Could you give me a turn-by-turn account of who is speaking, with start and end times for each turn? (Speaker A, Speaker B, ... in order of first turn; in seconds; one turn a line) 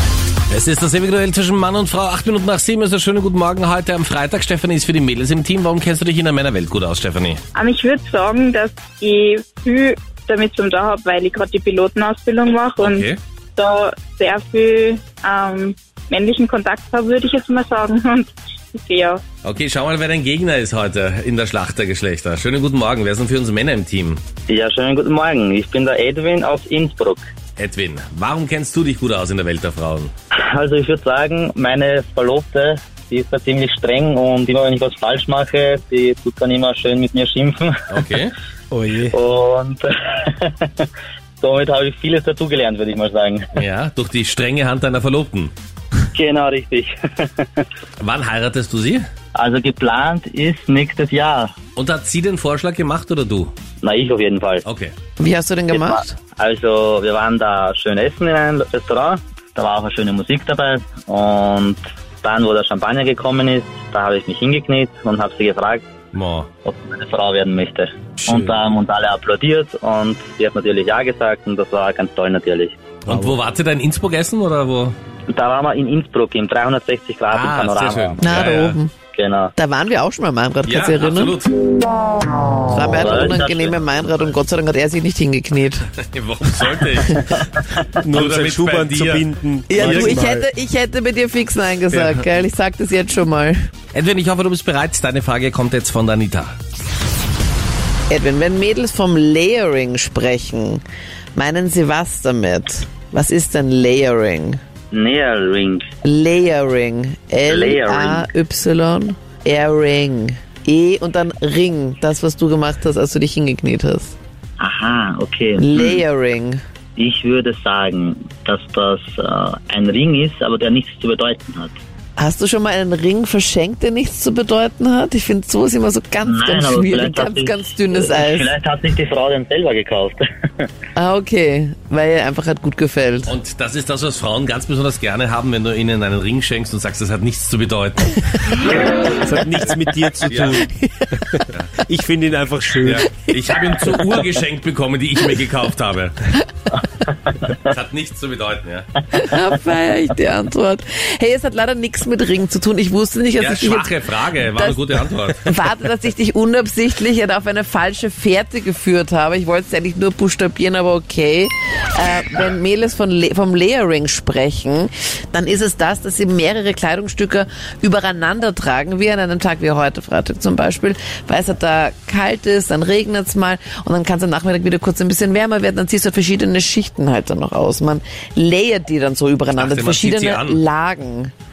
Speaker A: 0.5-7.4
Speaker B: 7.5-19.2
Speaker A: 12.8-13.2
Speaker A: 19.4-24.2
Speaker C: 24.5-27.2
Speaker A: 27.6-30.1
Speaker C: 30.5-37.7
Speaker A: 37.9-38.3
Speaker D: 38.7-39.1
Speaker C: 39.1-40.9
Speaker C: 41.4-43.4
Speaker A: 43.5-45.5
Speaker C: 46.1-47.6
Speaker A: 48.0-49.0
Speaker C: 49.3-51.5
Speaker A: 51.8-53.5
Speaker C: 53.8-54.6
Speaker A: 54.6-54.9
Speaker E: 55.2-56.1
Speaker C: 55.7-65.9
Speaker A: 66.1-66.5
Speaker C: 66.6-72.8
Speaker A: 68.2-68.5
Speaker A: 73.0-74.9
Speaker D: 73.1-73.3
Speaker C: 75.3-78.2
Speaker A: 77.3-78.8
Speaker E: 78.2-78.9
Speaker C: 79.1-79.5
Speaker E: 79.5-81.4
Speaker A: 80.7-81.5
Speaker E: 82.7-85.8
Speaker C: 83.0-84.3
Speaker A: 86.0-90.2
Speaker D: 88.0-90.5
Speaker E: 89.7-93.6
Speaker A: 91.9-92.2
Speaker A: 93.9-96.5
Speaker E: 98.1-100.8
Speaker E: 101.3-104.6
Speaker C: 104.9-105.8
Speaker E: 106.0-114.2
Speaker C: 107.5-108.2
Speaker C: 114.6-116.0
Speaker E: 115.6-116.6
Speaker C: 117.0-121.7
Speaker E: 122.2-128.5
Speaker C: 126.2-130.7
Speaker E: 130.9-133.3
Speaker A: 133.3-138.9
Speaker D: 139.2-143.1
Speaker A: 140.3-140.6
Speaker E: 140.7-141.1
Speaker A: 142.8-146.2
Speaker E: 143.3-144.2
Speaker A: 147.7-148.9
Speaker E: 149.1-181.3
Speaker A: 153.4-155.5
Speaker A: 179.5-180.6